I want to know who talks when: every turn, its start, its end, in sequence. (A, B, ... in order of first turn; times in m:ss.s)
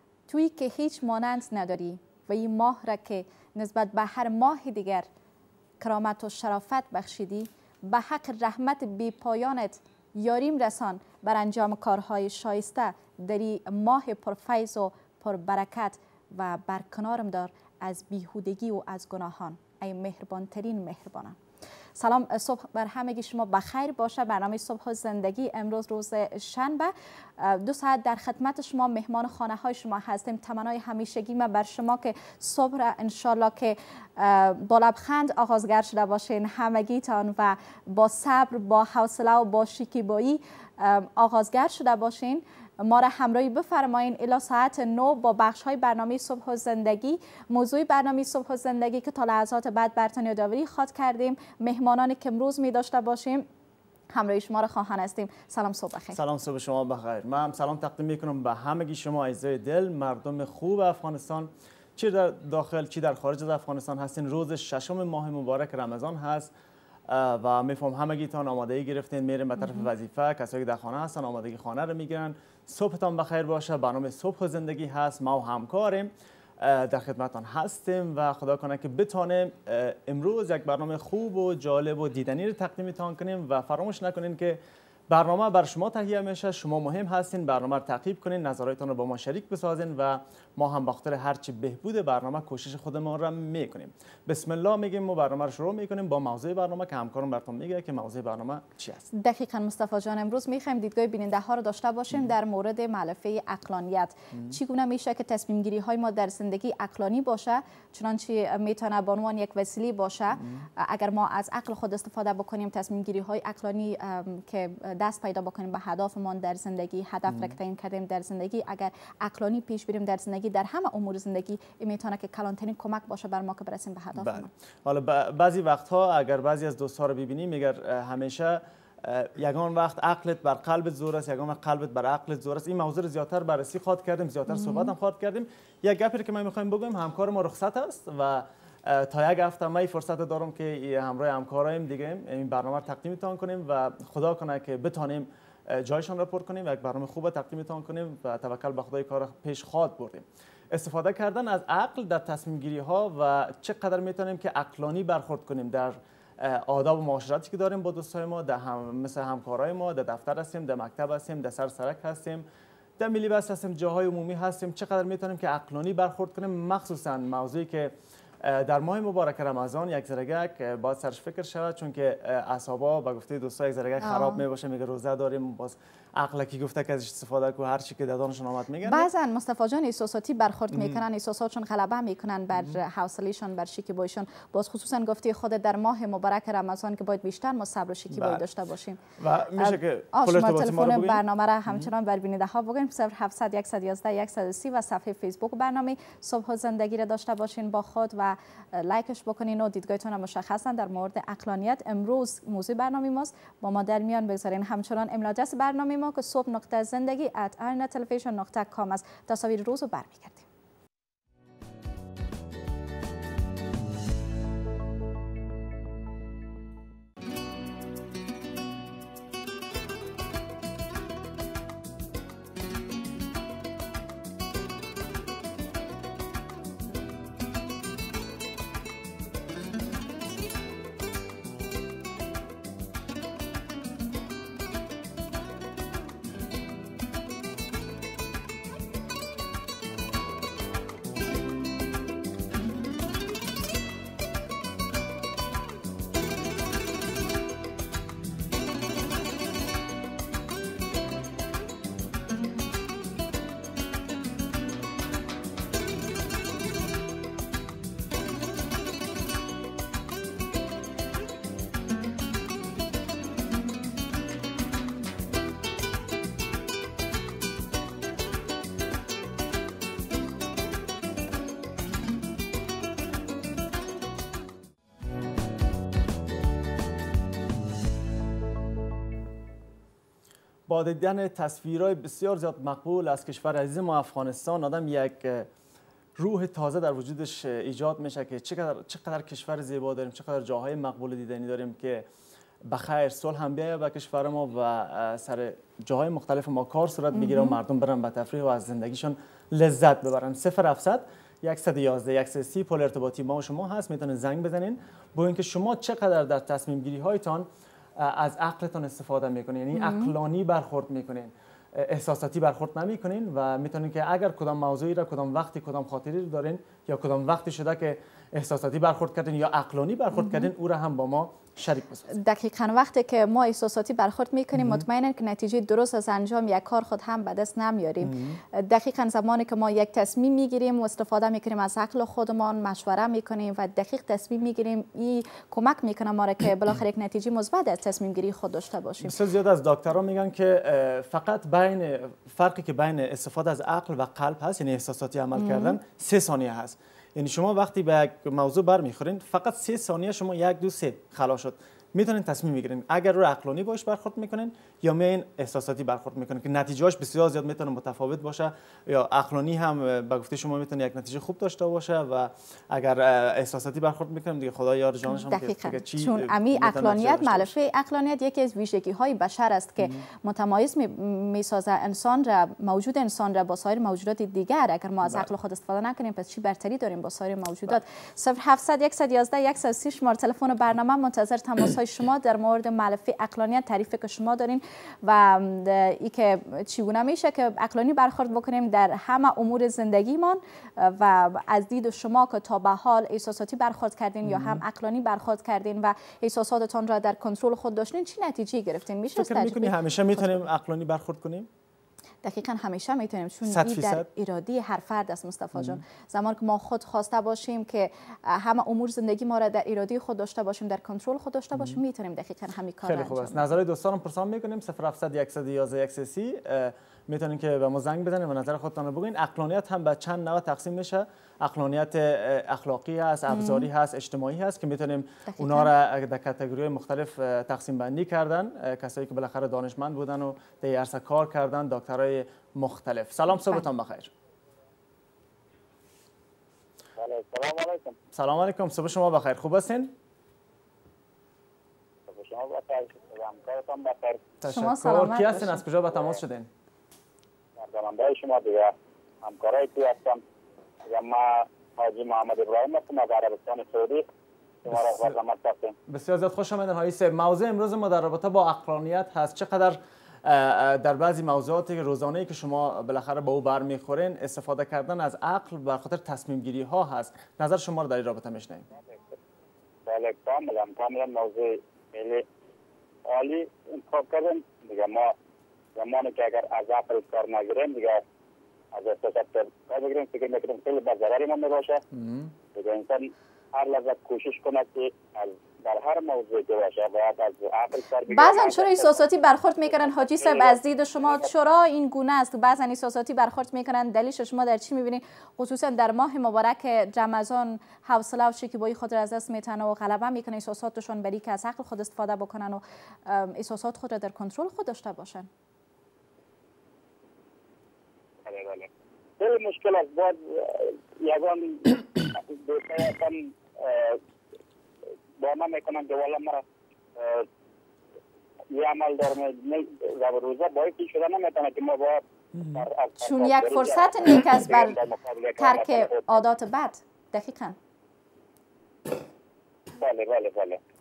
0:00.3-0:05.1 A
0:05.8-0:21.4 A
0:22.0-0:53.5 A
0:54.1-0:56.2 A
0:56.1-1:06.5 B
1:07.1-1:39.1 B
1:09.6-1:09.9 A
1:39.1-2:04.5 A
1:44.3-1:44.6 B
1:50.4-1:50.7 B
1:57.3-1:57.6 B
2:04.2-2:42.4 B
2:14.5-2:14.9 A
2:43.0-2:59.1 B
2:54.0-2:54.4 A
2:58.8-3:09.0 A
3:00.7-3:01.0 B
3:02.5-3:02.8 B
3:08.1-3:08.4 B
3:09.2-3:11.9 B
3:09.6-3:30.5 A
4:40.7-4:45.5 B
4:46.2-4:52.1 B
4:52.7-5:22.1 B
4:57.1-4:57.6 A
5:09.7-5:10.1 A
5:20.1-5:20.5 A
5:22.1-5:39.1 A
5:24.6-5:24.8 B
5:28.0-5:28.4 B
5:39.0-6:07.6 B
5:45.4-5:45.8 A
6:05.1-6:40.4 A
6:09.8-6:10.0 B
6:34.2-6:34.6 B
6:39.2-6:41.5 B
6:42.2-6:53.5 A
6:43.5-6:44.1 B
6:45.6-6:45.8 B
6:51.5-6:51.8 B
6:52.8-7:14.1 B
7:03.3-7:03.7 A
7:05.3-7:05.7 A
7:13.4-7:13.6 A
7:17.0-7:18.0 C
7:18.1-7:19.9 B
7:22.1-7:24.2 C
7:24.4-7:26.5 B
7:24.5-7:25.6 A
7:27.6-7:30.2 C
7:30.8-7:34.0 C
7:34.6-7:35.8 C
7:34.7-7:35.2 B
7:35.9-7:48.7 B
7:48.7-7:49.1 C
7:49.9-7:52.3 C
7:53.1-7:55.2 C
7:55.8-7:58.0 C
7:58.7-8:01.8 C
8:01.9-8:02.3 B
8:02.5-8:09.0 C
8:08.1-8:25.3 A
8:09.7-8:11.2 C
8:28.2-8:34.0 C
8:35.2-8:36.4 C
8:37.0-8:37.3 C
8:38.5-8:46.1 C
8:42.3-8:42.7 B
8:43.0-8:44.8 A
8:45.4-8:47.6 A
8:49.8-8:50.6 C